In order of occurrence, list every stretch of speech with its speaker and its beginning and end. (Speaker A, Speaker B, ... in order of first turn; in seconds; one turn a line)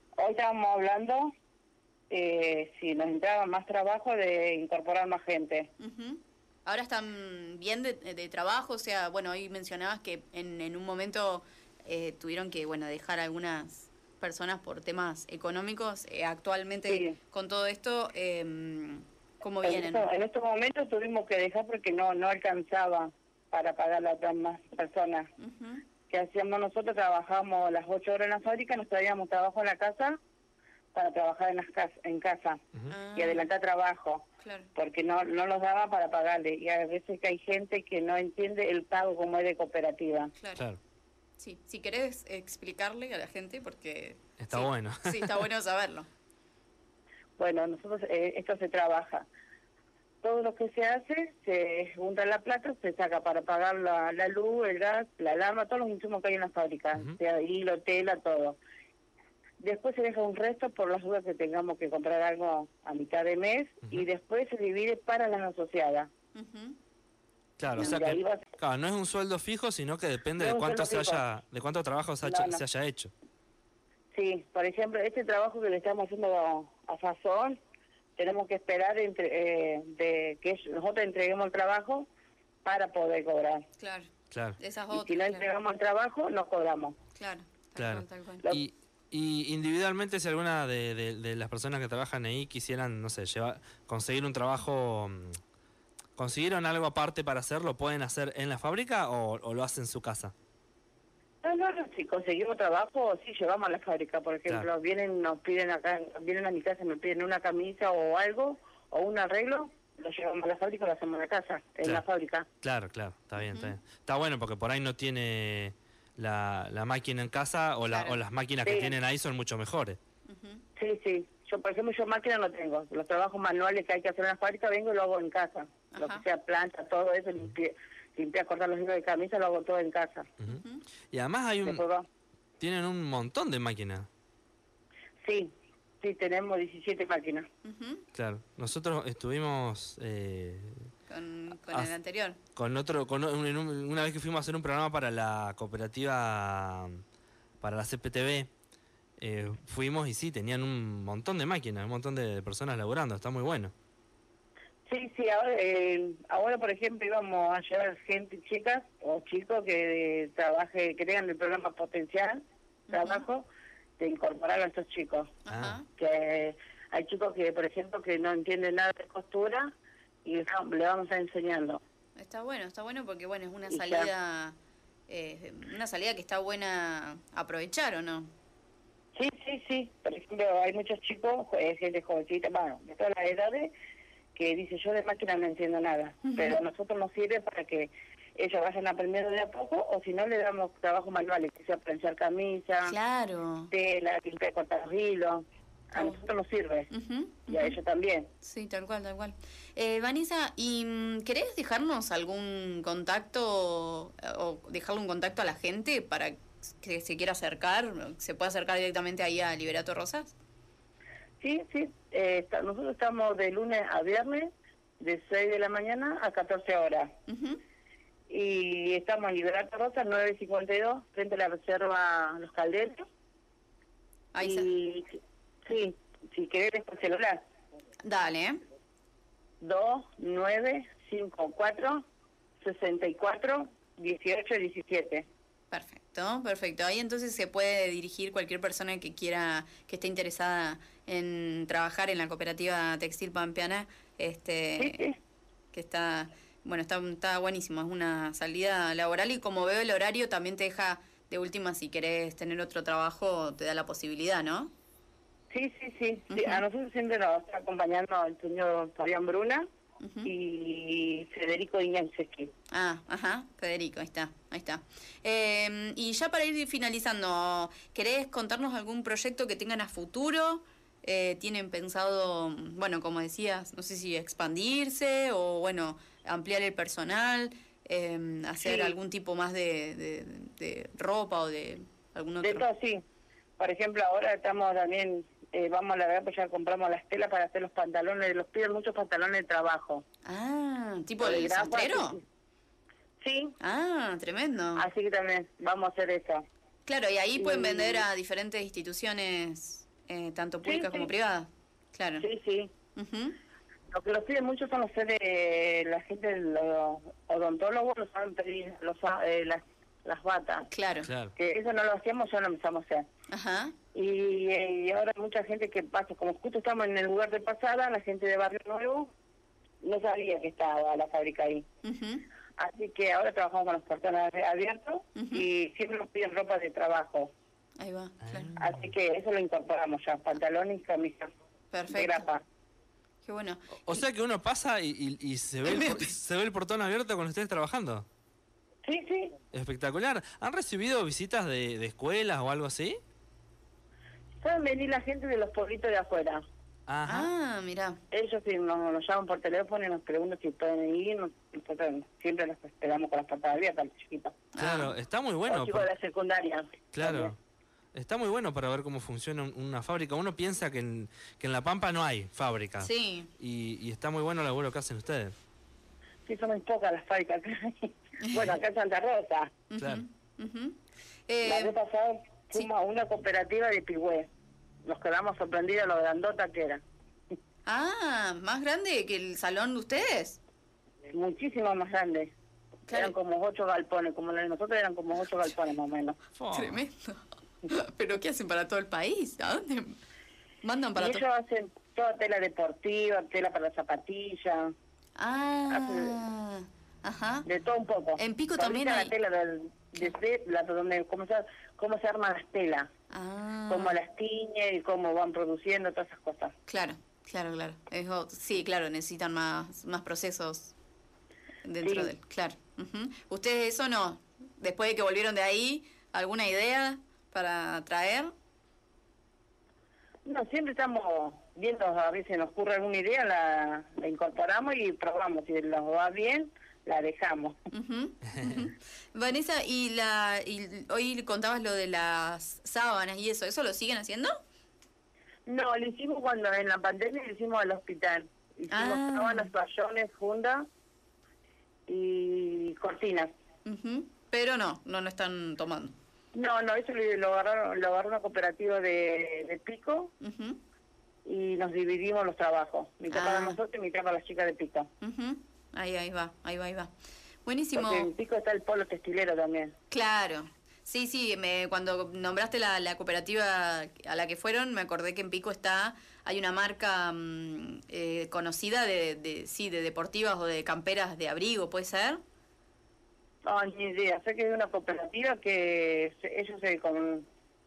Speaker A: 0.2-1.3
Speaker A: 2.1-5.7
Speaker B: 5.8-20.1
Speaker A: 16.9-17.2
Speaker A: 19.6-25.3
Speaker B: 25.4-25.9
Speaker A: 26.1-30.2
Speaker A: 30.9-32.6
Speaker B: 32.9-33.5
Speaker A: 33.2-40.3
Speaker B: 34.4-34.7
Speaker B: 41.4-46.1
Speaker C: 44.4-45.4
Speaker A: 47.4-49.3
Speaker A: 50.2-58.6
Speaker A: 59.6-66.1
Speaker B: 66.3-66.8
Speaker C: 67.6-73.1
Speaker B: 67.8-68.0
Speaker A: 67.8-68.4
Speaker A: 70.4-71.2
Speaker A: 72.2-72.6
Speaker A: 74.1-77.6
Speaker A: 78.2-82.1
Speaker A: 82.7-83.6
Speaker B: 83.8-85.5
Speaker C: 84.3-84.6
Speaker A: 84.9-87.0
Speaker B: 87.2-88.5
Speaker C: 87.8-95.4
Speaker C: 96.2-100.3
Speaker A: 101.4-112.5
Speaker C: 112.6-120.0
Speaker B: 113.4-113.8
Speaker B: 117.9-118.2
Speaker A: 118.6-119.0
Speaker B: 120.3-120.6
Speaker A: 120.8-130.3
Speaker B: 125.9-126.2
Speaker B: 130.5-130.8
Speaker C: 131.1-131.8
Speaker A: 131.6-132.1
Speaker C: 132.6-134.1
Speaker A: 135.2-137.5
Speaker B: 137.6-138.1
Speaker C: 138.2-140.9
Speaker B: 141.1-142.4
Speaker C: 141.7-141.9
Speaker C: 142.6-147.0
Speaker C: 147.6-148.5
Speaker C: 149.2-153.7
Speaker A: 154.9-163.5
Speaker B: 162.9-163.2
Speaker A: 164.0-165.3
Speaker B: 165.4-165.9
Speaker C: 165.5-165.8
Speaker A: 166.0-169.7
Speaker A: 170.2-171.8
Speaker B: 172.2-174.6
Speaker A: 173.7-174.1
Speaker B: 175.1-178.3
Speaker A: 179.2-183.7
Speaker A: 184.3-192.9
Speaker B: 186.2-186.6
Speaker B: 192.8-193.7
Speaker A: 193.7-196.9
Speaker B: 195.9-196.2
Speaker B: 196.9-197.8
Speaker A: 197.5-198.3
Speaker B: 198.4-210.3
Speaker A: 211.4-217.1
Speaker B: 217.3-217.6
Speaker A: 218.3-223.1
Speaker B: 224.3-224.7
Speaker A: 224.4-227.4
Speaker B: 228.0-228.6
Speaker A: 229.6-232.0
Speaker A: 232.6-235.3
Speaker B: 235.7-245.1
Speaker A: 244.8-245.2
Speaker B: 245.7-254.7
Speaker A: 255.5-259.6
Speaker B: 256.3-256.6
Speaker B: 260.0-260.3
Speaker A: 260.2-262.5
Speaker B: 262.7-282.7
Speaker A: 278.6-279.0
Speaker A: 282.4-283.0
Speaker A: 283.6-290.0
Speaker B: 290.2-292.2
Speaker A: 291.2-292.2
Speaker A: 293.2-293.6
Speaker B: 293.6-294.9
Speaker A: 294.8-296.4
Speaker B: 296.9-302.3
Speaker A: 297.4-298.1
Speaker A: 300.6-301.1
Speaker A: 302.2-302.7
Speaker B: 303.0-303.4
Speaker A: 303.9-310.7
Speaker B: 310.7-311.1
Speaker C: 311.1-311.3
Speaker A: 311.4-313.1
Speaker B: 313.3-313.8
Speaker A: 313.9-319.1
Speaker A: 319.8-321.7
Speaker B: 321.8-322.2
Speaker A: 322.6-327.3
Speaker B: 325.1-325.4
Speaker B: 327.8-328.5
Speaker C: 328.3-328.7
Speaker A: 328.6-331.3
Speaker B: 331.7-332.3
Speaker A: 331.9-332.4
Speaker B: 333.2-334.0
Speaker C: 333.9-338.1
Speaker B: 335.7-336.1
Speaker A: 338.9-339.3
Speaker C: 339.5-343.0
Speaker A: 344.4-346.4
Speaker C: 346.9-347.3
Speaker B: 347.1-348.0
Speaker A: 348.1-354.4
Speaker B: 354.5-354.9
Speaker C: 354.6-355.9
Speaker A: 355.5-357.3
Speaker C: 356.9-357.4
Speaker C: 357.9-365.3
Speaker B: 362.8-363.3
Speaker A: 366.3-369.5
Speaker B: 369.7-371.8
Speaker C: 369.8-370.1
Speaker A: 371.4-374.3
Speaker A: 374.9-376.8
Speaker B: 377.7-380.4
Speaker A: 381.1-382.3
Speaker B: 382.9-383.1
Speaker A: 382.9-386.2
Speaker C: 386.4-386.8
Speaker B: 386.5-390.0
Speaker B: 390.6-391.2
Speaker A: 390.9-394.7
Speaker B: 395.2-397.5
Speaker A: 395.7-396.2
Speaker A: 397.5-402.9
Speaker B: 398.2-399.1
Speaker B: 403.1-404.0
Speaker A: 403.7-406.5
Speaker B: 406.7-410.7
Speaker B: 411.6-418.3
Speaker A: 411.8-412.1
Speaker A: 420.2-427.6
Speaker B: 427.7-434.3
Speaker A: 435.5-440.6
Speaker B: 438.7-439.5
Speaker A: 441.9-443.3
Speaker B: 443.6-445.9
Speaker A: 446.3-450.1
Speaker B: 450.2-450.6
Speaker A: 451.3-454.9
Speaker B: 453.1-453.6
Speaker B: 455.0-456.9
Speaker B: 457.4-458.1
Speaker A: 457.8-459.7
Speaker B: 459.9-472.2
Speaker A: 473.5-477.3